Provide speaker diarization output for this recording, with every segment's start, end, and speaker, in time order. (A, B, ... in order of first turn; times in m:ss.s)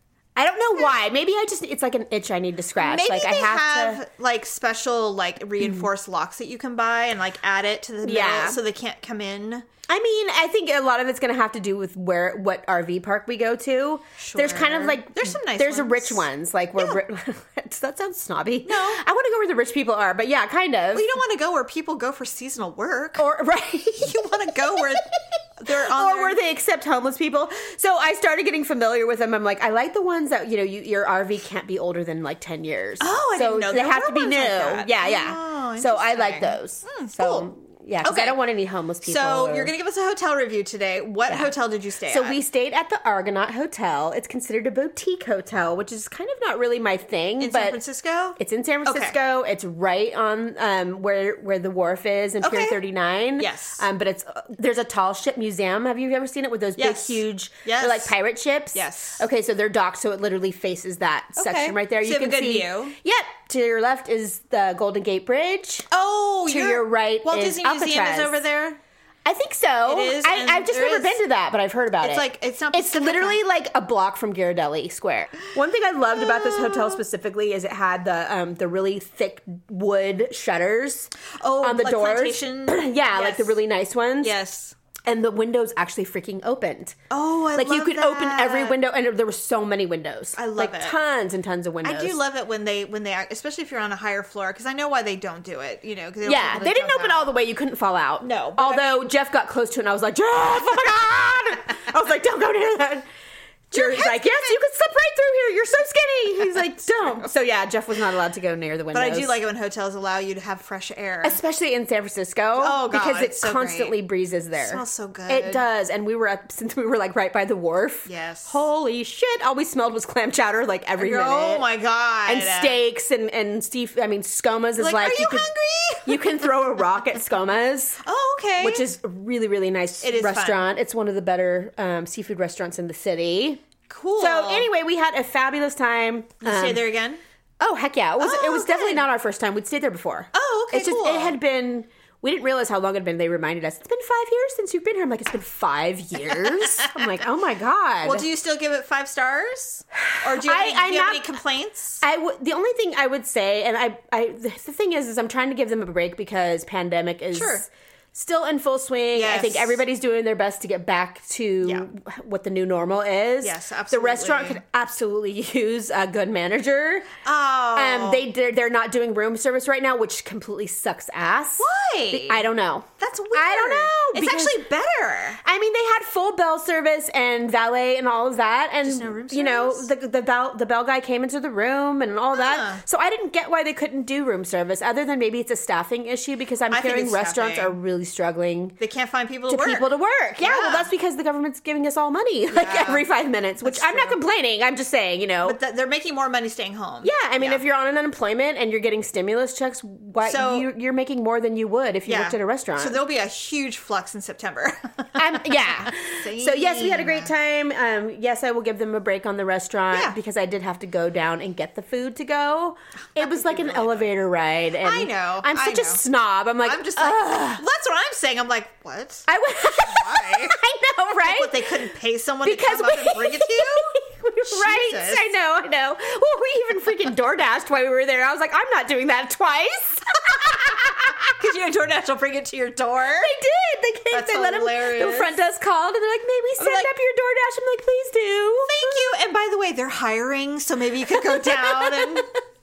0:00.4-0:04.0 A
0:02.8-0:09.7 B
0:05.6-0:05.8 A
0:08.0-0:08.6 A
0:09.9-0:21.1 A
0:14.2-0:16.2 B
0:18.6-0:19.0 B
0:20.9-0:23.2 B
0:23.2-0:39.7 A
0:24.0-0:26.4 B
0:33.0-0:37.5 B
0:38.0-0:38.4 B
0:39.0-0:42.4 B
0:41.3-0:41.5 A
0:42.1-0:47.8 A
0:47.4-0:49.2 B
0:48.4-1:05.9 A
0:52.4-0:52.8 B
0:53.4-0:53.8 B
0:56.8-0:58.1 B
0:58.7-0:59.2 B
1:01.4-1:02.9 B
1:05.9-1:08.8 B
1:06.4-1:08.4 A
1:09.2-1:24.3 A
1:09.8-1:11.2 B
1:12.0-1:13.4 B
1:16.1-1:17.0 B
1:21.4-1:23.5 B
1:24.2-1:24.8 B
1:25.0-1:27.0 A
1:27.1-1:28.8 B
1:27.5-1:32.2 A
1:30.4-1:31.0 B
1:31.8-1:37.3 B
1:36.2-1:43.0 A
1:38.2-1:39.0 B
1:43.7-1:49.3 A
1:43.7-1:44.6 B
1:46.5-1:47.3 B
1:48.9-1:51.4 B
1:51.2-2:01.6 A
1:52.6-1:53.9 B
1:54.6-1:55.6 B
1:58.0-1:58.6 B
2:01.0-2:02.8 B
2:02.2-2:05.5 A
2:04.8-2:06.6 B
2:06.0-2:08.0 A
2:08.0-2:08.9 B
2:08.6-2:13.6 A
2:10.0-2:10.6 B
2:13.9-2:14.7 B
2:14.2-2:16.8 A
2:16.4-2:17.2 B
2:17.6-2:28.2 A
2:18.2-2:19.0 B
2:20.3-2:21.4 B
2:26.3-2:27.0 B
2:28.0-2:32.0 B
2:30.0-2:31.3 A
2:32.0-2:47.1 A
2:37.3-2:37.6 B
2:39.1-2:39.8 B
2:43.4-2:44.6 B
2:47.2-2:48.2 B
2:47.7-2:54.6 A
2:51.6-2:52.4 B
2:53.0-2:55.4 B
2:55.4-3:08.8 A
2:58.8-2:59.9 B
3:02.3-3:02.8 B
3:06.7-3:07.8 B
3:08.8-3:09.9 B
3:09.5-3:15.6 A
3:10.4-3:10.9 B
3:12.5-3:13.1 B
3:13.6-3:14.2 B
3:15.4-3:17.6 B
3:17.0-3:23.0 A
3:20.2-3:20.7 B
3:22.0-3:27.3 B
3:25.2-3:37.6 A
3:33.2-3:34.1 B
3:34.8-3:36.0 B
3:36.6-3:40.6 B
3:39.3-3:41.9 A
3:41.2-3:45.3 B
3:42.4-3:51.3 A
3:51.3-3:53.3 B
3:53.2-3:59.1 A
3:54.1-3:55.3 B
3:56.6-3:56.9 B
3:58.6-4:02.3 B
4:01.1-4:02.2 A